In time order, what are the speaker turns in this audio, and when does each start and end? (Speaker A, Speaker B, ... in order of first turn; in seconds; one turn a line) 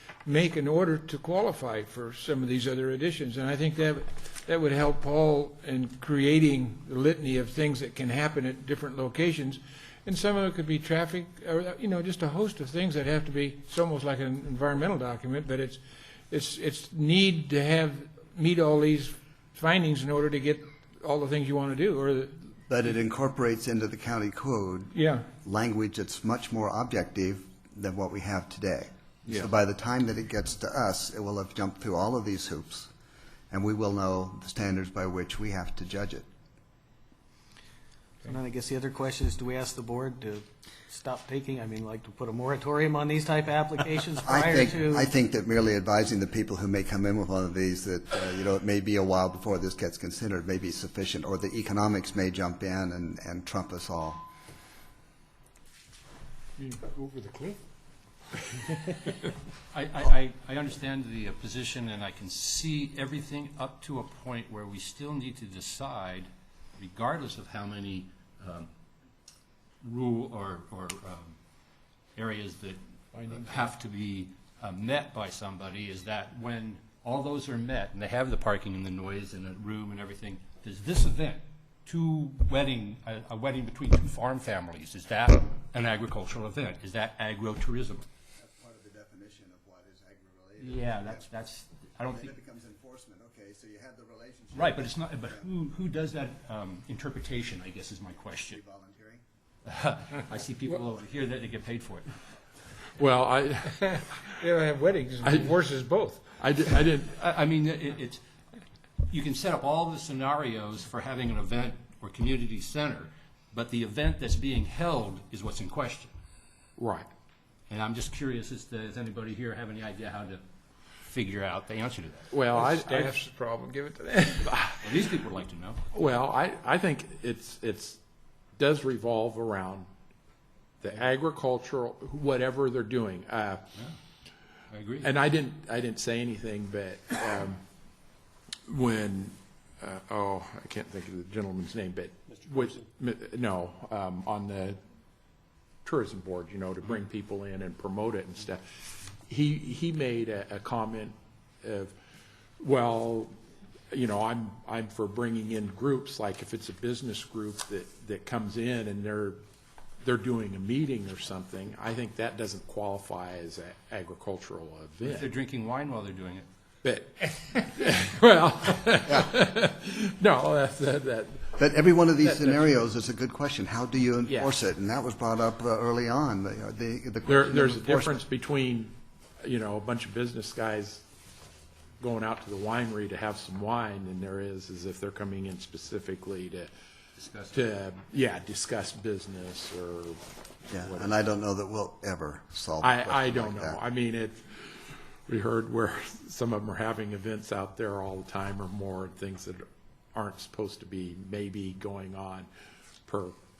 Speaker A: 0.2-22.5
Speaker B: 22.7-32.9
Speaker A: 24.9-25.3
Speaker B: 33.5-36.3
Speaker C: 38.3-45.1
Speaker B: 44.2-54.2
Speaker A: 56.6-57.6
Speaker D: 59.7-68.7
Speaker D: 69.8-71.4
Speaker D: 72.2-88.1
Speaker E: 73.2-73.7
Speaker B: 88.4-91.3
Speaker D: 90.6-92.3
Speaker B: 92.1-95.5
Speaker D: 94.5-98.6
Speaker B: 98.3-99.2
Speaker D: 99.7-102.1
Speaker E: 103.0-104.4
Speaker A: 103.8-106.2
Speaker E: 105.2-105.6
Speaker E: 106.4-107.2
Speaker D: 107.2-108.2
Speaker D: 109.1-116.1
Speaker E: 116.8-117.1
Speaker D: 117.7-120.4
Speaker D: 121.0-122.3
Speaker E: 122.3-123.2
Speaker A: 122.5-124.6
Speaker E: 124.5-125.1
Speaker D: 124.8-125.8
Speaker E: 125.9-128.0
Speaker E: 128.6-129.9
Speaker E: 130.8-133.7
Speaker D: 134.7-135.1
Speaker E: 135.0-137.6
Speaker E: 138.7-144.8
Speaker E: 145.8-151.9
Speaker E: 152.6-153.3
Speaker E: 153.9-159.4
Speaker E: 160.0-165.3
Speaker D: 165.0-166.5
Speaker E: 166.8-171.7
Speaker B: 171.6-178.2
Speaker E: 172.2-172.8
Speaker E: 174.3-174.5
Speaker E: 177.3-181.1
Speaker E: 182.0-186.7
Speaker D: 187.2-187.7
Speaker E: 187.5-190.2
Speaker B: 190.7-193.8
Speaker E: 190.7-191.1
Speaker E: 192.8-199.6
Speaker E: 200.1-202.5
Speaker E: 203.1-203.3